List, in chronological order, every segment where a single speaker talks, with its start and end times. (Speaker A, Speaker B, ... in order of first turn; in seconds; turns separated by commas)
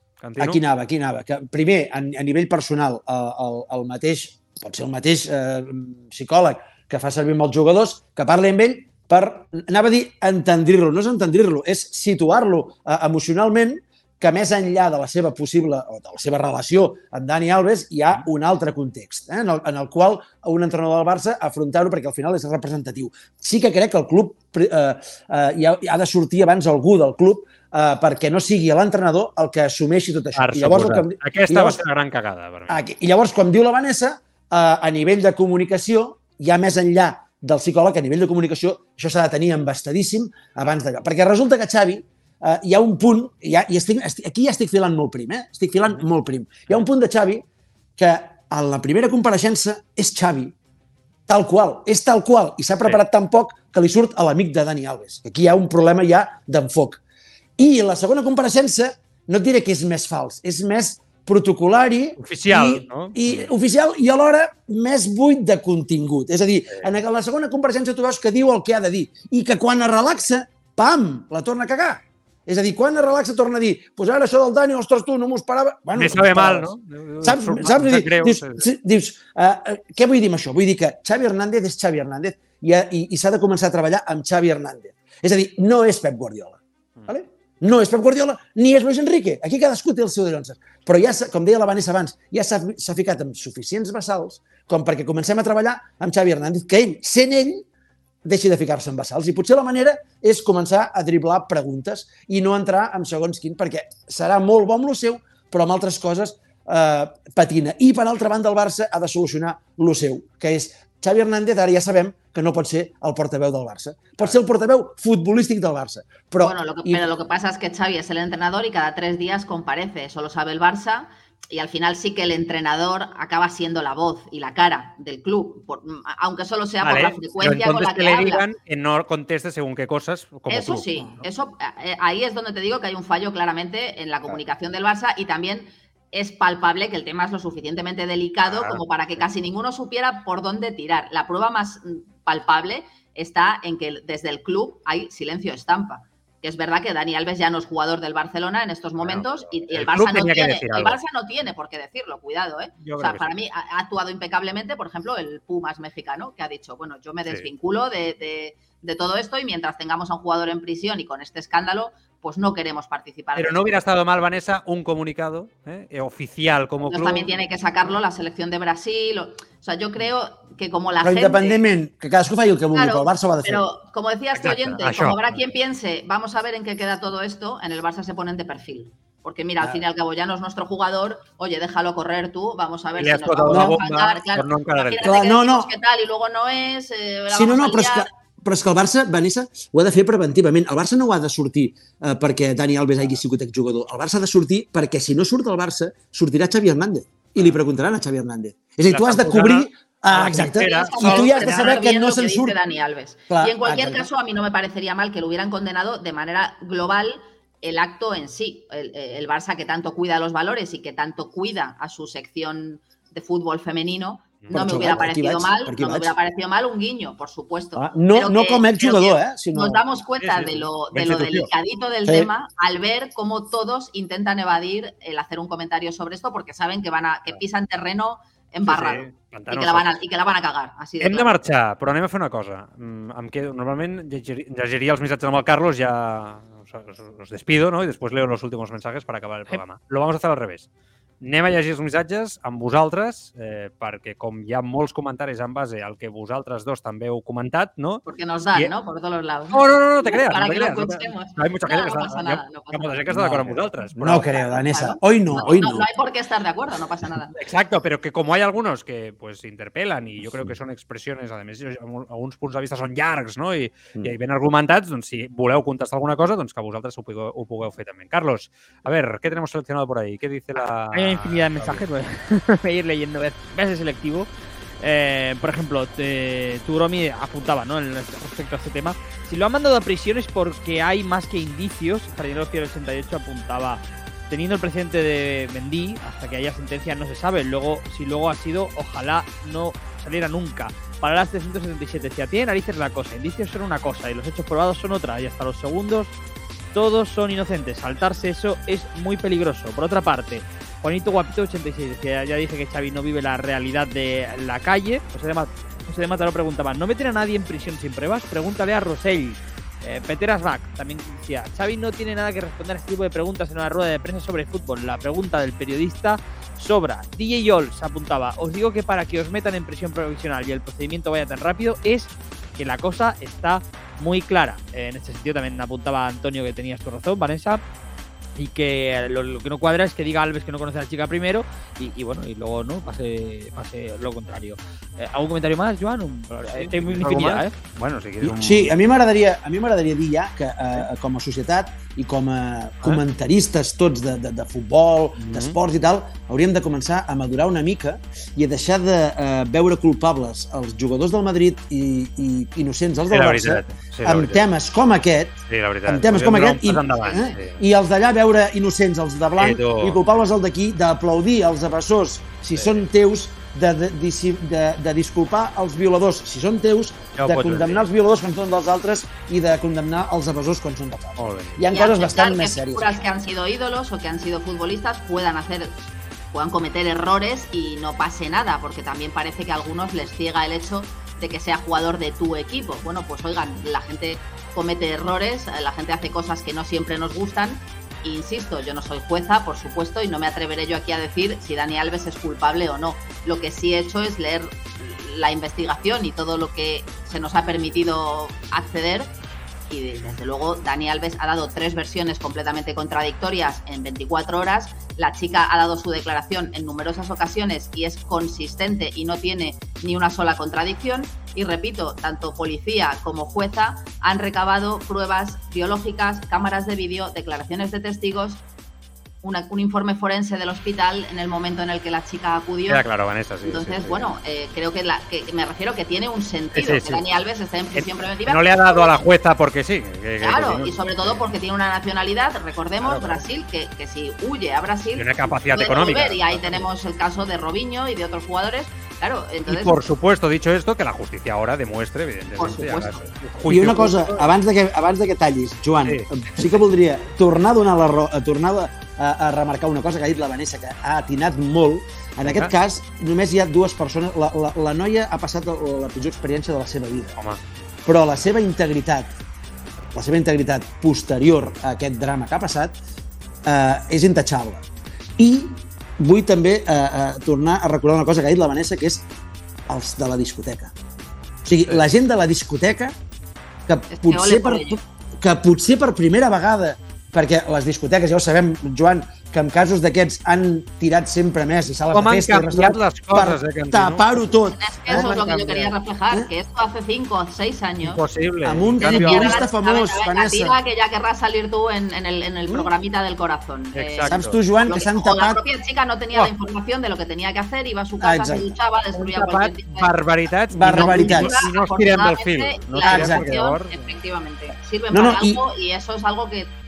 Speaker A: 0.2-0.6, Speaker B: 0.4-31.8, Speaker A: 30.4-32.8, Speaker B: 32.7-47.4, Speaker B: 48.0-50.5, Speaker B: 51.3-57.0, Speaker B: 57.6-76.7, Speaker A: 62.2-63.5, Speaker A: 75.9-78.7, Speaker B: 77.2-97.7, Speaker B: 98.2-117.1, Speaker C: 116.4-128.4, Speaker A: 126.8-131.2, Speaker C: 130.5-163.7, Speaker A: 138.5-139.3, Speaker A: 149.0-151.0, Speaker A: 152.8-153.3, Speaker A: 163.3-167.3, Speaker C: 166.8-171.6, Speaker B: 171.0-173.7, Speaker C: 172.7-188.1, Speaker A: 174.3-175.4, Speaker A: 183.0-185.1, Speaker B: 183.5-183.8, Speaker B: 185.0-185.7, Speaker B: 187.3-202.6, Speaker A: 198.9-201.8, Speaker C: 200.4-231.3, Speaker B: 203.3-204.1, Speaker A: 214.4-214.9, Speaker B: 214.5-216.2, Speaker B: 217.8-219.9, Speaker A: 220.2-221.5, Speaker B: 222.1-222.3, Speaker A: 228.6-229.9, Speaker A: 231.0-240.7, Speaker A: 241.2-248.7, Speaker C: 248.1-257.4, Speaker A: 249.5-254.4, Speaker B: 254.0-255.9, Speaker A: 257.4-271.8, Speaker D: 270.9-274.3, Speaker D: 274.8-296.1, Speaker D: 296.7-327.6, Speaker D: 328.4-337.5, Speaker A: 336.5-338.7, Speaker B: 338.2-373.1, Speaker A: 345.2-345.6, Speaker A: 353.1-354.5, Speaker A: 355.5-357.6, Speaker A: 359.4-360.0, Speaker A: 362.6-362.9, Speaker A: 367.2-367.9, Speaker A: 371.2-371.7, Speaker C: 371.7-399.1, Speaker C: 399.7-418.4, Speaker C: 419.2-422.9, Speaker A: 422.7-424.1, Speaker C: 423.4-429.0, Speaker A: 426.5-427.0, Speaker A: 427.8-431.2, Speaker C: 430.2-439.8, Speaker A: 432.8-433.2, Speaker A: 434.9-436.7, Speaker A: 439.5-444.3, Speaker C: 442.4-443.1, Speaker B: 443.4-457.2, Speaker A: 445.8-446.7, Speaker A: 452.2-452.5, Speaker A: 457.2-457.5, Speaker B: 457.9-459.1, Speaker B: 459.9-462.8, Speaker B: 463.4-464.7, Speaker B: 465.2-469.1, Speaker B: 469.7-470.7, Speaker B: 471.4-473.0, Speaker B: 473.7-486.3, Speaker C: 473.9-474.8, Speaker A: 481.9-484.3, Speaker C: 484.6-488.0, Speaker A: 484.9-485.7, Speaker A: 487.8-489.4, Speaker B: 488.4-490.6, Speaker C: 488.8-499.9, Speaker B: 492.5-492.7, Speaker A: 493.7-494.4, Speaker B: 494.1-495.4, Speaker B: 498.0-498.6, Speaker A: 498.9-503.9, Speaker B: 500.5-501.4, Speaker C: 500.6-506.5, Speaker B: 502.8-503.3, Speaker B: 504.9-505.4